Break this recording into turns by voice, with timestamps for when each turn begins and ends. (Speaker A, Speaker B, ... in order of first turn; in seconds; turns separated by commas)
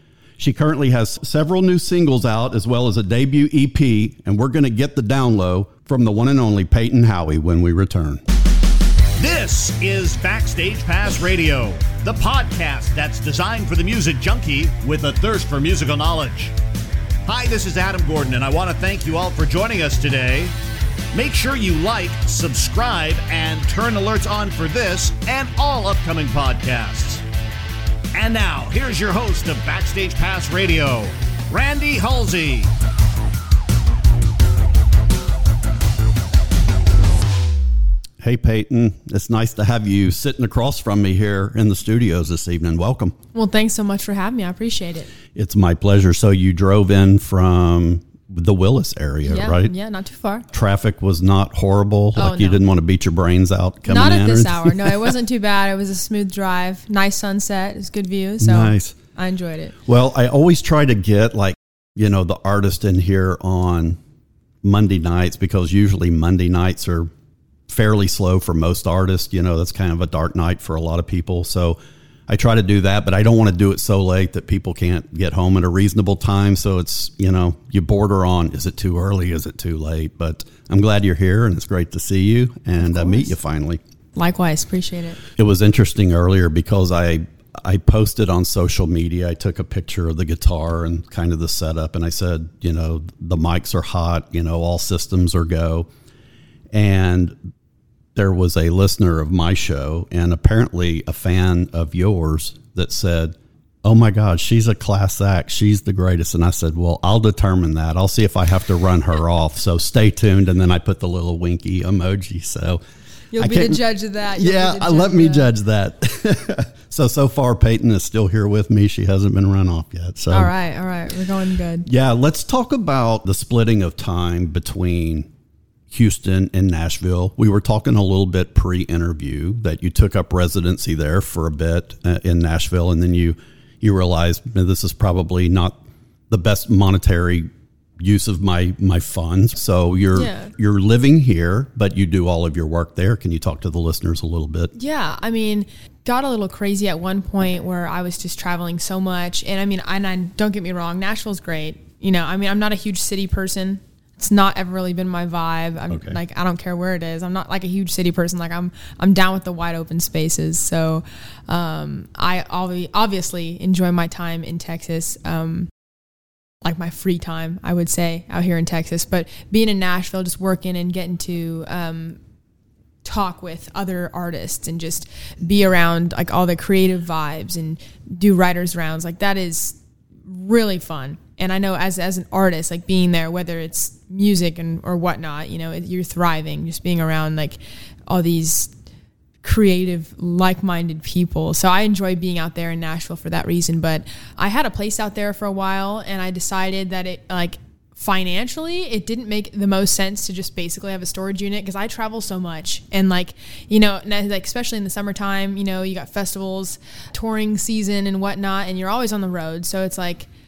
Speaker A: 0.4-8.2, Speaker B: 9.2-16.5, Speaker B: 17.3-20.5, Speaker B: 21.1-27.2, Speaker B: 28.1-32.7, Speaker A: 38.2-43.1, Speaker C: 43.3-45.1, Speaker A: 45.4-49.7, Speaker C: 49.2-50.5, Speaker A: 50.5-55.1, Speaker C: 52.2-52.6, Speaker C: 53.9-59.8, Speaker A: 58.4-59.0, Speaker A: 59.9-64.0, Speaker A: 64.6-67.1, Speaker A: 67.7-71.8, Speaker A: 72.3-83.8, Speaker C: 82.8-83.3, Speaker C: 84.2-85.2, Speaker A: 85.4-95.9, Speaker A: 96.7-97.3, Speaker A: 98.2-112.8, Speaker C: 113.3-115.5, Speaker A: 113.4-113.8, Speaker A: 114.3-120.5, Speaker C: 120.3-121.9, Speaker A: 121.9-125.3, Speaker A: 125.9-144.7, Speaker C: 140.1-140.5, Speaker C: 144.8-165.7, Speaker A: 155.9-156.2, Speaker C: 166.6-172.2, Speaker C: 173.0-188.7, Speaker C: 189.4-210.3